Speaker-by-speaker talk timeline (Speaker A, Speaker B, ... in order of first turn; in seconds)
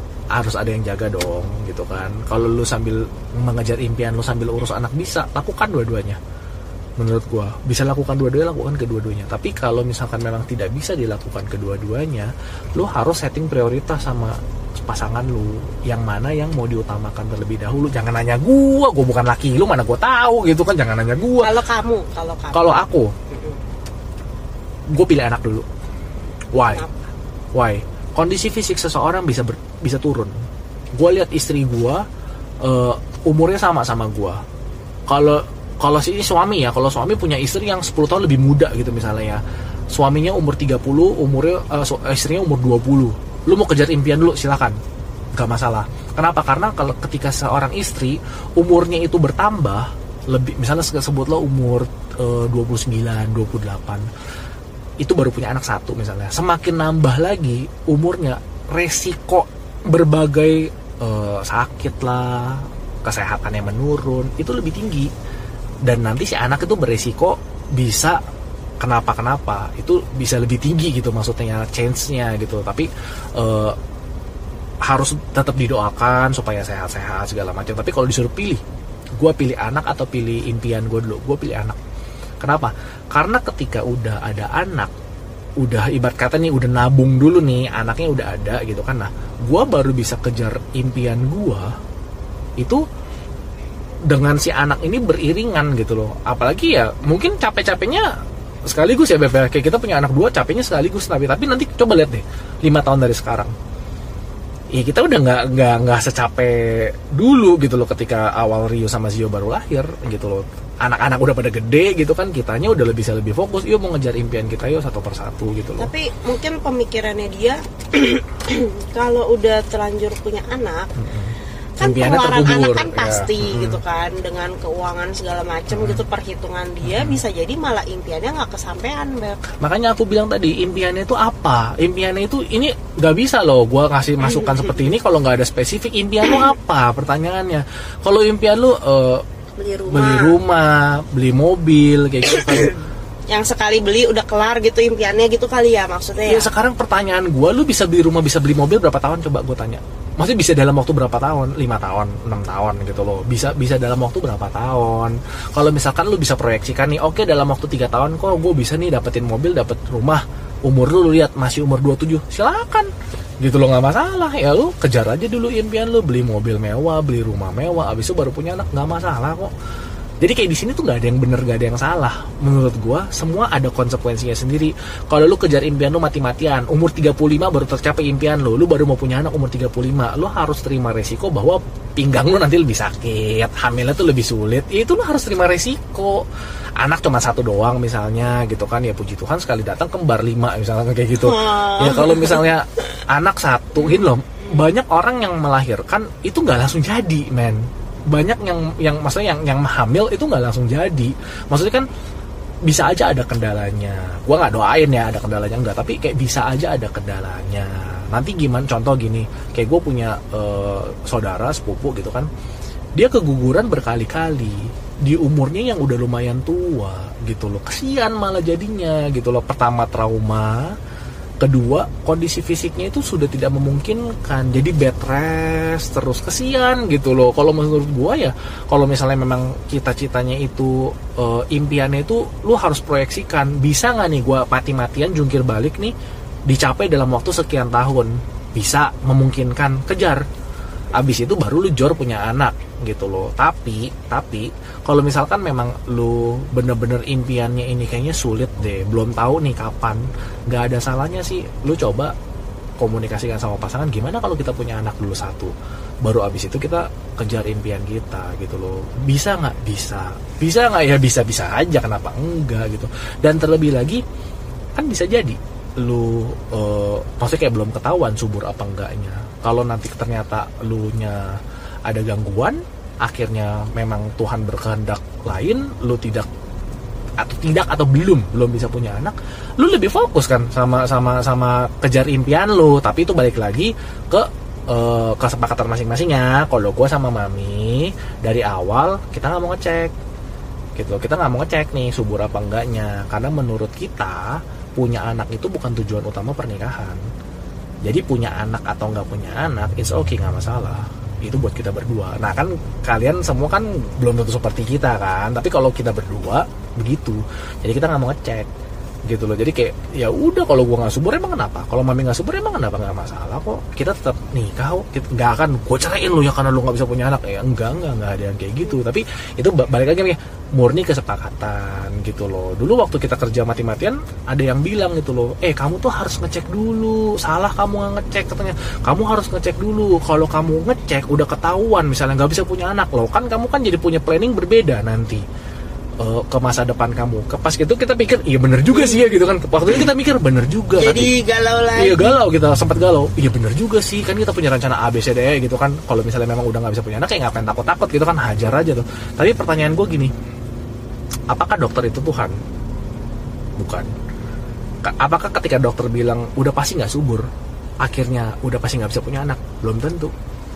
Speaker A: 0.3-6.2, 7.0-21.6, 22.5-23.1, 24.9-25.7, 26.5-26.9, 27.5-30.4, 31.0-32.0, 32.6-34.4, 35.1-39.4, 39.9-44.8, 45.4-54.1, 55.0-65.1, 65.9-68.2, 68.8-73.8, 74.8-78.6, 79.2-81.8, 82.4-84.9, 85.6-91.7, 92.6-92.8, 94.1-98.1, 98.7-103.5, 104.7-115.9, 121.0-123.8, 125.7-126.0, 126.8-127.2, 129.6-139.2, 139.9-142.8, 146.3-169.5, 170.2-186.2, 186.8-201.9, 202.7-212.3, 213.0-220.8, 221.4-235.9, 236.5-240.3, 240.9-252.1, 252.8-264.0, 264.8-276.3, 277.2-289.9, 290.8-297.0, 297.9-308.5, 309.1-335.2, 336.0-341.1, 341.8-350.1, 351.3-352.4, 353.6-353.9, 354.8-357.3, 357.8-360.1
Speaker B: 21.4-23.6, 26.7-27.1, 115.8-121.0, 121.8-129.5, 139.6-140.4, 142.4-142.8, 143.3-146.5, 191.2-192.4, 338.7-339.1, 340.8-342.2